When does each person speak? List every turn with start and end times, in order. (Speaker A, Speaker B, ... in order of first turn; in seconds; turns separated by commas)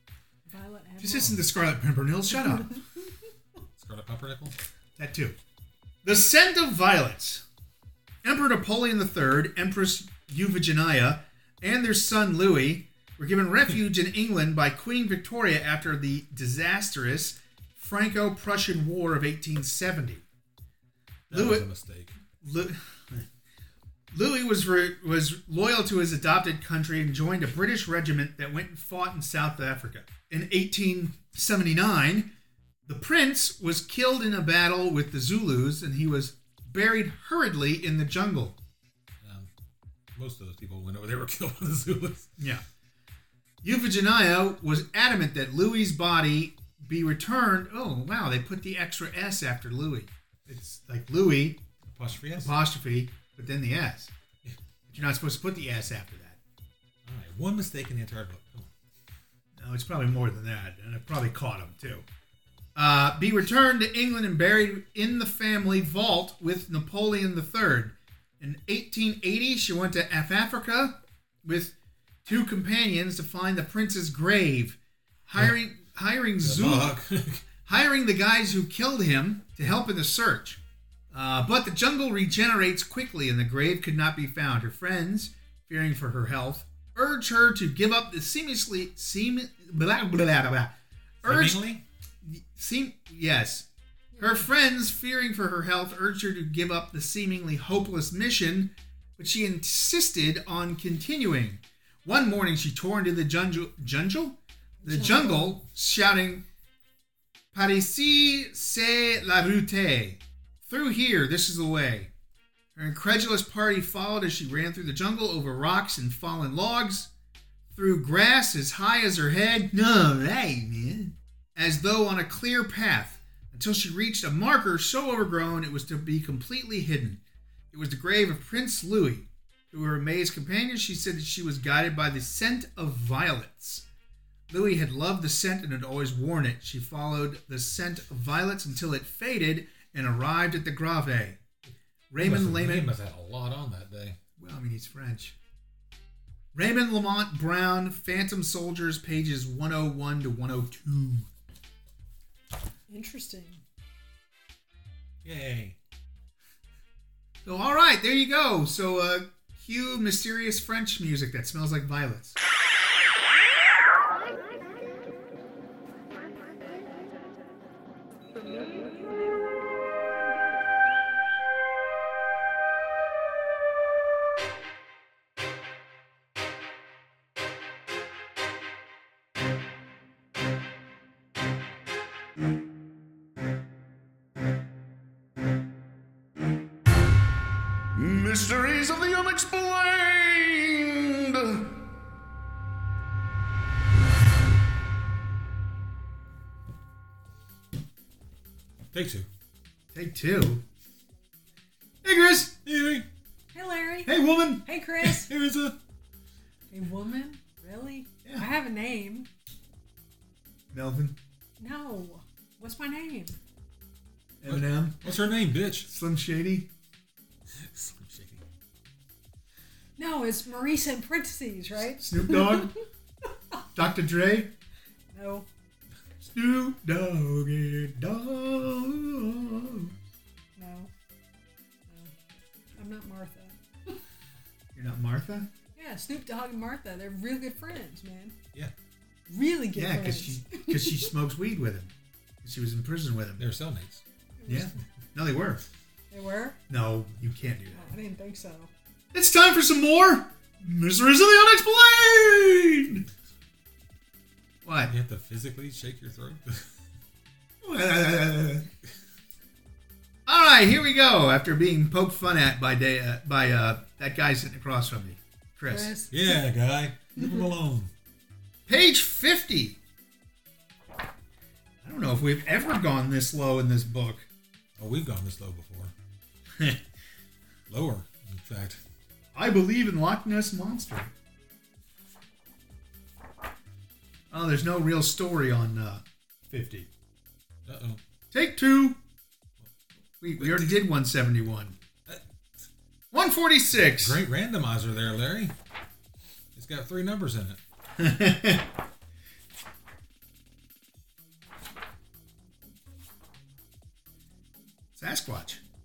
Speaker A: 0.5-1.4, Speaker B: 1.0-2.8, Speaker A: 2.5-2.8, Speaker C: 3.8-4.5, Speaker B: 5.0-5.4, Speaker B: 6.0-7.4, Speaker B: 8.2-20.2, Speaker C: 21.3-22.2, Speaker B: 21.3-21.7, Speaker B: 22.4-23.3, Speaker B: 24.1-32.3, Speaker B: 32.9-38.6, Speaker C: 39.2-39.5, Speaker C: 40.1-42.3, Speaker B: 42.4-42.6, Speaker B: 43.6-51.6, Speaker C: 51.9-52.6, Speaker B: 52.4-54.1, Speaker B: 54.9-56.4, Speaker C: 57.0-58.7, Speaker B: 59.6-62.0, Speaker B: 62.8-71.7, Speaker B: 72.2-77.0, Speaker C: 76.4-77.4, Speaker B: 77.7-80.6, Speaker B: 81.1-90.7, Speaker B: 91.2-91.6, Speaker C: 91.2-91.8, Speaker B: 92.2-93.7, Speaker A: 94.1-94.5, Speaker B: 94.2-106.4, Speaker A: 104.8-105.6, Speaker B: 107.5-112.1, Speaker B: 112.8-117.1, Speaker B: 117.7-127.2, Speaker B: 127.7-133.8, Speaker B: 134.5-141.4, Speaker B: 142.1-142.9, Speaker C: 142.2-144.2, Speaker B: 144.4-145.4, Speaker B: 146.5-151.3, Speaker A: 152.9-153.6, Speaker C: 155.2-155.8, Speaker B: 157.4-162.4, Speaker D: 188.0-191.8, Speaker C: 198.9-199.3, Speaker B: 199.9-200.6, Speaker B: 202.0-202.6, Speaker C: 202.7-203.1, Speaker A: 203.5-205.3, Speaker B: 204.1-204.6, Speaker C: 205.0-205.8, Speaker A: 206.7-209.3, Speaker B: 210.7-211.2, Speaker A: 211.6-213.4, Speaker B: 214.4-215.0, Speaker C: 214.5-215.9, Speaker B: 215.9-216.7, Speaker C: 217.5-218.4, Speaker A: 220.0-222.8, Speaker B: 222.0-222.7, Speaker B: 223.8-224.5, Speaker A: 225.1-225.5, Speaker B: 226.2-229.9, Speaker A: 230.6-230.9, Speaker A: 231.9-232.2, Speaker A: 232.7-234.0, Speaker B: 234.8-235.5, Speaker A: 235.8-238.4, Speaker A: 239.3-241.1, Speaker B: 239.8-241.9, Speaker B: 242.4-243.5, Speaker C: 243.4-244.0, Speaker A: 244.4-244.7, Speaker B: 244.5-245.6, Speaker A: 246.1-246.6, Speaker B: 246.7-247.9, Speaker A: 247.7-248.7, Speaker B: 249.1-253.1, Speaker B: 254.7-254.9, Speaker C: 254.9-256.7, Speaker B: 257.6-258.7, Speaker B: 260.3-266.0, Speaker A: 265.7-266.4, Speaker C: 266.1-267.9, Speaker B: 268.7-269.8, Speaker B: 271.8-274.3, Speaker C: 274.8-275.9, Speaker C: 277.7-278.8, Speaker B: 279.3-281.1, Speaker B: 284.3-286.9, Speaker C: 287.7-288.0, Speaker B: 288.3-289.0, Speaker B: 290.2-291.8, Speaker C: 290.4-290.8, Speaker C: 292.1-292.6, Speaker B: 293.1-294.2, Speaker C: 294.0-295.6, Speaker C: 296.6-297.6, Speaker B: 298.0-298.7, Speaker B: 305.0-305.6